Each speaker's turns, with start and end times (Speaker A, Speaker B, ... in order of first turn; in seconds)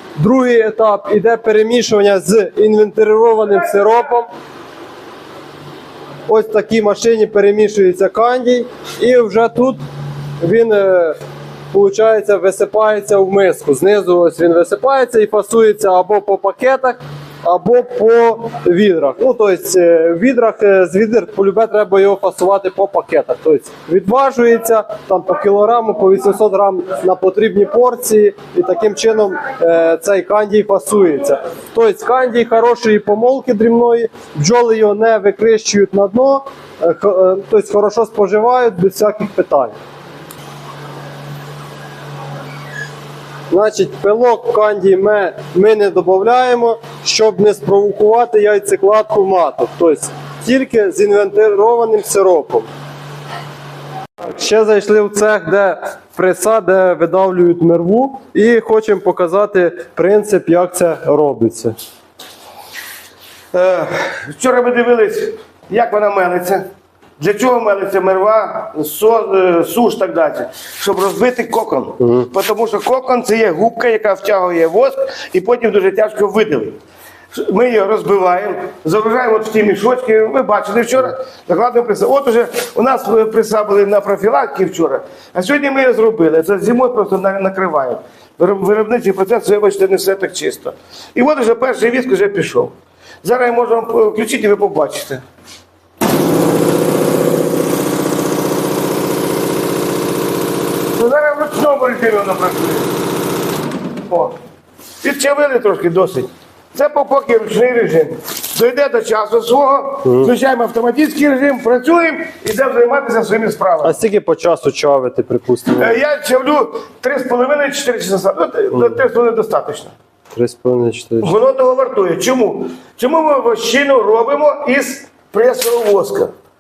Speaker A: 0.2-4.3, 6.3-9.8, 10.4-11.2, 11.7-39.8, 43.5-52.7, 54.2-61.8, 72.0-72.3, 110.0-110.3, 113.8-116.0, 118.7-119.0, 120.3-121.3
Speaker B: 63.5-66.6, 67.2-76.8, 77.3-95.2, 101.0-102.9, 104.1-104.4, 105.0-114.0, 115.8-119.9, 121.2-126.3